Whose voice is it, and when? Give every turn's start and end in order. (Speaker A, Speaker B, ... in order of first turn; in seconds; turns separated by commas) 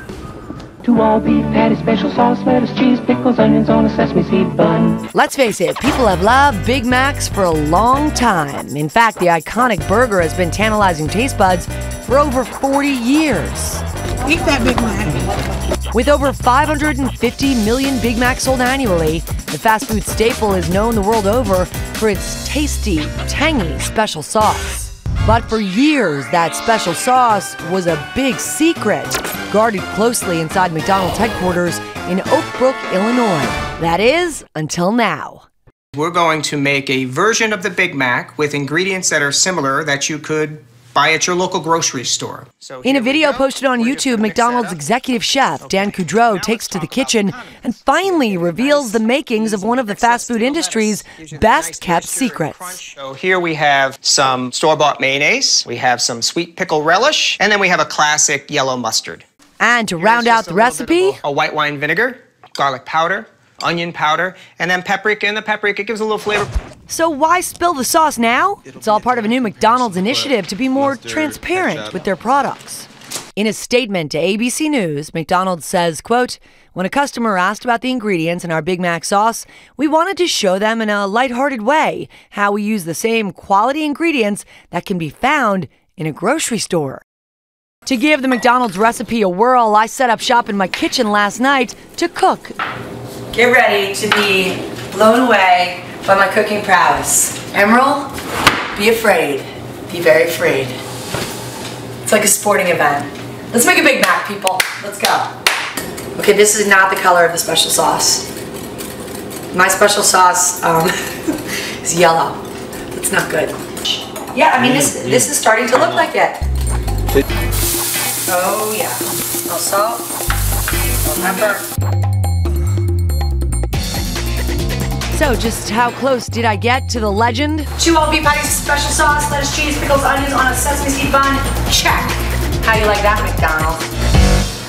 Speaker A: 0.8-5.0, Speaker B: 5.1-13.8, Speaker A: 14.2-15.2, Speaker B: 15.9-35.5, Speaker C: 35.9-44.8, Speaker B: 42.8-52.8, Speaker C: 45.6-59.2, Speaker B: 59.6-61.2, Speaker C: 60.0-66.5, Speaker B: 66.9-87.0, Speaker C: 68.8-70.2, Speaker C: 70.8-71.9, Speaker B: 87.8-92.6, Speaker B: 93.3-98.1, Speaker B: 98.7-100.8, Speaker B: 102.0-105.3, Speaker B: 106.1-108.3, Speaker B: 109.5-112.4, Speaker B: 112.9-113.6, Speaker B: 114.2-116.4, Speaker B: 118.3-120.0, Speaker B: 121.0-121.7, Speaker B: 125.1-133.8